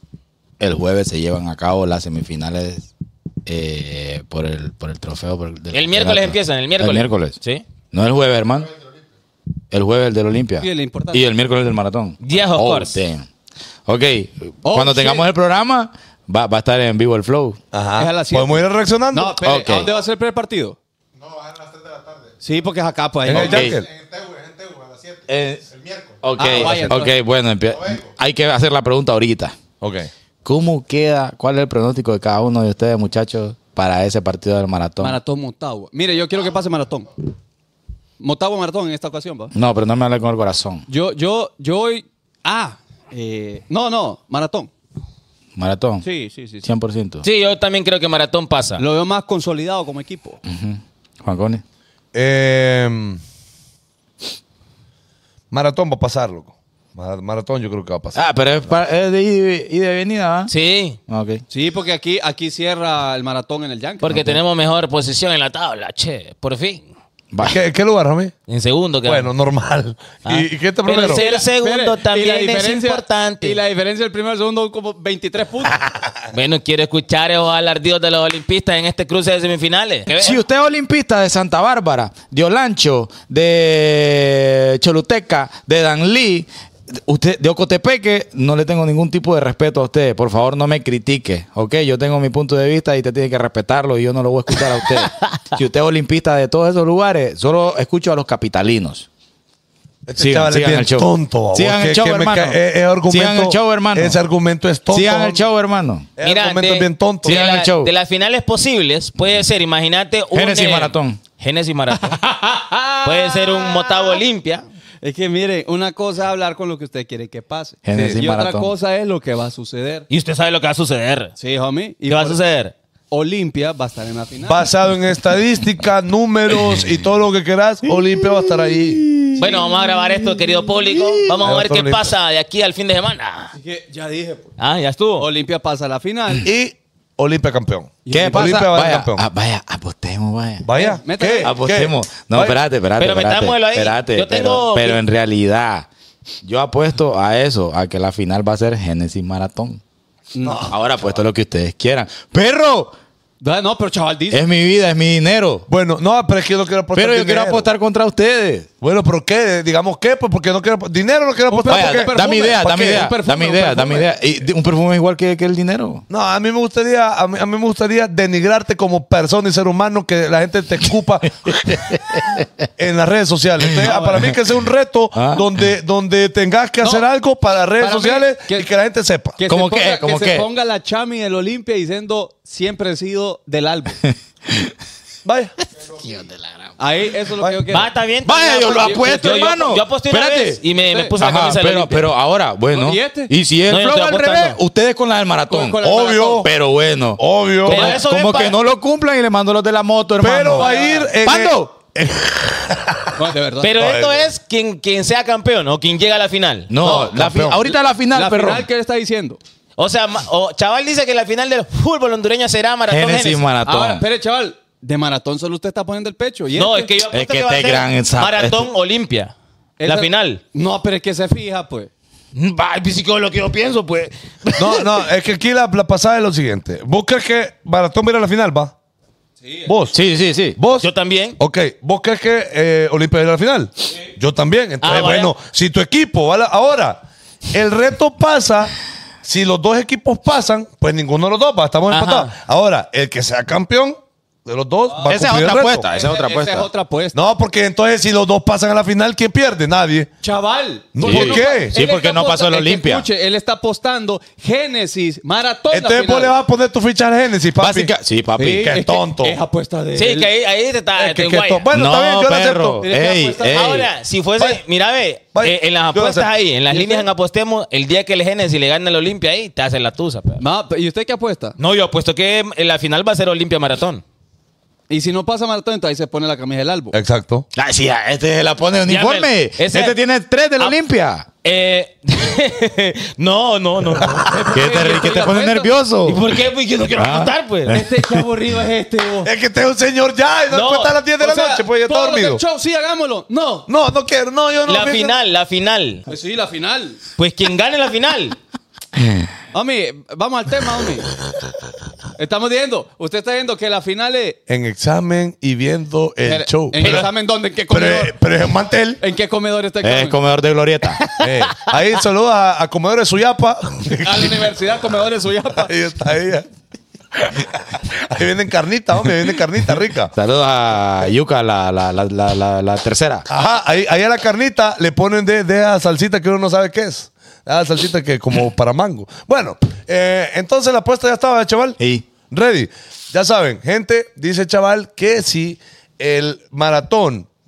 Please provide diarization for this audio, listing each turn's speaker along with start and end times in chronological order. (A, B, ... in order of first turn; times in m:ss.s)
0:00.6-0:02.9 A
0:03.4-0:07.4 A
0:05.7-0:07.6 B
0:07.9-0:08.8 A
0:09.7-0:13.3 A
0:10.6-0:11.2 C
0:12.2-0:13.0 B
0:13.8-0:17.6 A
0:14.6-0:15.3 C
0:17.7-0:19.4 D
0:18.0-0:20.8 C
0:19.4-0:19.9 A
0:22.4-0:23.7 C
0:23.2-0:23.9 D
0:23.3-0:23.8 A
0:25.3-0:29.5 A
0:26.4-0:27.2 C
0:29.8-0:30.1 D
0:30.4-0:35.2 A
0:35.0-0:37.2 C
0:38.2-0:39.5 C
0:39.5-0:40.8 A
0:40.9-0:44.7 C
0:45.6-0:46.0 A
0:46.0-0:46.6 C
0:46.6-0:47.2 A
0:47.2-0:48.8 B
0:48.8-0:50.4 C
0:50.4-0:51.6 A
0:52.1-0:53.2 D
0:55.5-0:58.2 D
0:58.1-1:00.5 A
1:00.5-1:01.0 B
1:01.1-1:01.4 A
1:01.5-1:04.2 C
1:04.0-1:06.9 B
1:04.1-1:04.4 A
1:07.3-1:07.6 A
1:07.4-1:08.3 D
1:08.5-1:09.3 B
1:09.0-1:11.2 D
1:10.2-1:13.6 B
1:11.0-1:15.8 C
1:16.3-1:20.4 B
1:20.1-1:26.5 A
1:27.0-1:39.1 A
1:40.1-1:45.4 D
1:40.2-1:44.2 A
1:44.9-1:46.1 A
1:46.2-1:47.4 D
1:46.2-1:52.2 B
1:47.2-1:47.9 A
1:50.3-1:51.2 A
1:52.0-1:54.2 C
1:53.0-1:54.6 B
1:55.0-2:00.1 C
1:57.8-1:58.7 A
1:57.9-1:58.2 D
2:00.1-2:01.3 B
2:01.4-2:02.4 C
2:02.1-2:02.7 B
2:03.1-2:04.6 C
2:04.5-2:09.1 D
2:09.4-2:13.5 B
2:11.4-2:12.1 D
2:13.6-2:14.5 C
2:14.6-2:15.3 B
2:15.2-2:16.5 C
2:16.4-2:19.2 D
2:18.0-2:18.6 C
2:18.1-2:20.7 A
2:20.6-2:22.6 D
2:20.7-2:21.5 C
2:21.4-2:25.9 A
2:23.0-2:25.0 B
2:26.4-2:29.8 A
2:30.3-2:30.7 C
2:30.4-2:30.7 D
2:30.7-2:32.9 A
2:33.4-2:34.4 C
2:34.3-2:35.6 A
2:35.7-2:37.7 D
2:36.9-2:38.7 A
2:38.8-2:43.1 D
2:41.5-2:44.1 C
2:41.7-2:46.0 A
2:46.1-2:51.8 D
2:51.5-2:52.5 A
2:52.8-2:59.4 D
2:53.7-2:54.3 A
2:53.8-2:54.3 C
2:55.1-2:55.5 A
2:57.8-2:58.7 C
2:59.4-3:04.0 C
2:59.5-3:00.5 A
3:04.1-3:04.7 A
3:05.2-3:05.5 D
3:05.9-3:06.7 A
3:06.8-3:07.9 C
3:07.4-3:07.7 D
3:07.7-3:12.1 B
3:08.2-3:10.6 A
3:08.8-3:09.2 C
3:10.8-3:11.1 C
3:11.2-3:21.7 A
3:12.7-3:13.3 C
3:13.7-3:14.6 B
3:15.5-3:16.5 C
3:15.8-3:16.5 D
3:17.2-3:17.9 D
3:17.6-3:18.6 B
3:17.7-3:18.0 C
3:20.2-3:23.2 D
3:20.5-3:21.1 C
3:23.1-3:23.8 C
3:23.6-3:26.9 B
3:23.8-3:24.3 D
3:26.7-3:28.6 A
3:26.8-3:27.3 C
3:26.8-3:27.6 D
3:28.1-3:29.4 C
3:29.8-3:33.4 B
3:32.9-3:34.0 A
3:33.6-3:36.9 C
3:36.5-3:39.3 B
3:37.1-3:38.6 A
3:39.8-3:41.9 C
3:39.8-3:40.4 B
3:42.3-3:45.1 B
3:44.5-3:48.7 D
3:49.4-3:49.7 C
3:49.6-3:50.0 D
3:49.9-3:50.6 A
3:50.5-3:58.7 D
3:50.8-3:51.4 B
3:54.8-3:55.3 B
3:59.2-4:05.9 D
4:01.9-4:02.3 B
4:04.9-4:05.1 C
4:05.0-4:06.7 A
4:05.9-4:07.2 C
4:07.1-4:10.1 D
4:10.2-4:16.3 C
4:10.9-4:11.7 D
4:11.0-4:13.0 A
4:15.7-4:17.9 D
4:17.6-4:18.8 A
4:18.4-4:20.3 C
4:18.5-4:19.4 D
4:20.0-4:21.7 B
4:20.9-4:22.8 D
4:21.7-4:23.9 A
4:22.8-4:23.7 C
4:23.5-4:30.4 B
4:25.3-4:26.3 D
4:26.7-4:27.1 C
4:30.4-4:31.6 C
4:31.6-4:34.0 B
4:34.9-4:37.0 C
4:36.9-4:37.4 D
4:37.6-4:41.2 A
4:38.9-4:40.0 B
4:41.4-4:44.3 B
4:44.0-4:44.3 D
4:44.2-4:45.7 C
4:44.5-4:46.3 A
4:46.0-4:47.8 B
4:46.9-4:47.9 A
4:47.7-4:49.3 C
4:49.2-4:52.4 D
4:50.5-4:50.9 B
4:51.2-4:53.7 C
4:53.7-4:55.2 D
4:54.6-4:56.0 B
4:56.1-4:57.0 C
4:57.2-4:58.4 B
4:59.5-5:01.1 C
5:02.2-5:04.4 C
5:04.5-5:07.1 D
5:06.2-5:08.1 C
5:07.7-5:09.0 D
5:09.0-5:10.2 C
5:09.8-5:11.0 A
5:11.0-5:11.3 B
5:11.2-5:14.5 D
5:14.0-5:15.7 C
5:15.6-5:16.5 D
5:17.1-5:20.1 D
5:20.1-5:23.2 A
5:23.3-5:31.8 D
5:31.8-5:32.0 A
5:32.3-5:37.3 D